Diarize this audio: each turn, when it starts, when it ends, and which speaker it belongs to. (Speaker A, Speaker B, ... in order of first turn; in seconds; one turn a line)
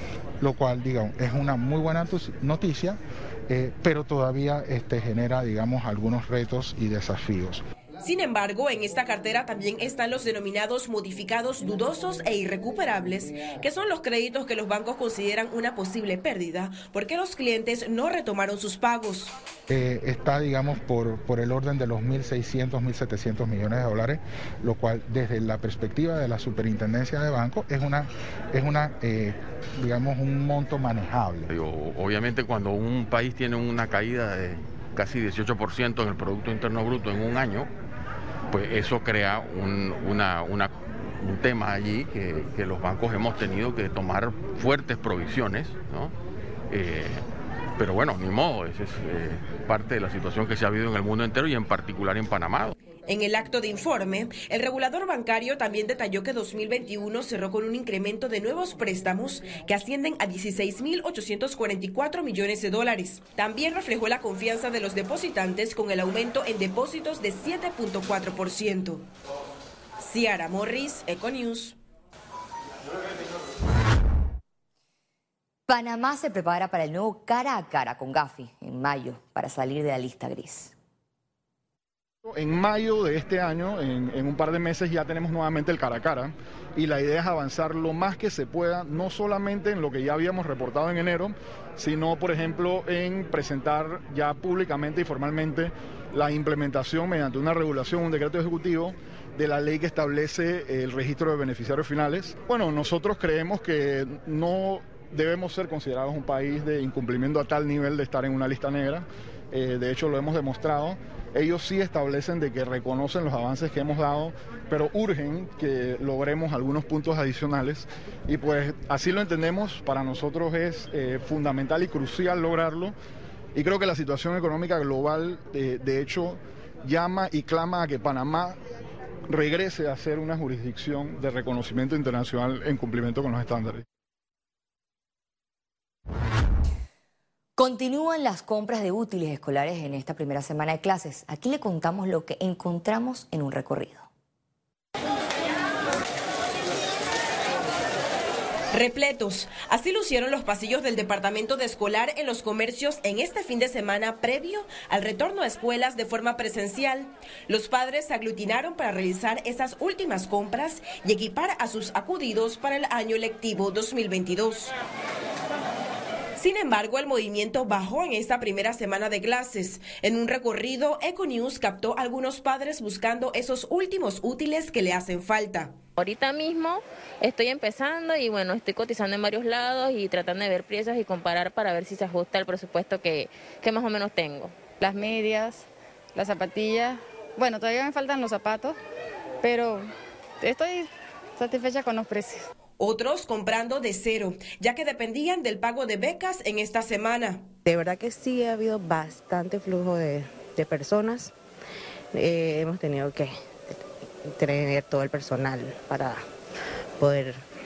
Speaker A: 0.4-7.6
Speaker B: 8.0-19.3
Speaker A: 19.7-31.5
Speaker C: 31.5-37.7
Speaker C: 38.5-46.1
Speaker C: 46.7-47.2
Speaker C: 47.8-52.7
Speaker B: 53.1-69.0
Speaker B: 70.0-71.8
Speaker D: 75.7-80.7
Speaker E: 82.2-122.9
Speaker E: 123.5-128.5
Speaker E: 129.3-133.8
Speaker D: 137.6-144.1
Speaker B: 148.7-164.7
Speaker B: 166.4-175.8
Speaker F: 176.0-184.4
Speaker G: 184.7-188.8
Speaker G: 189.4-189.9
Speaker G: 190.4-192.4
Speaker B: 192.8-197.5
Speaker H: 197.7-201.3
Speaker H: 202.1-203.8
Speaker H: 204.3-206.2
Speaker H: 207.0-207.4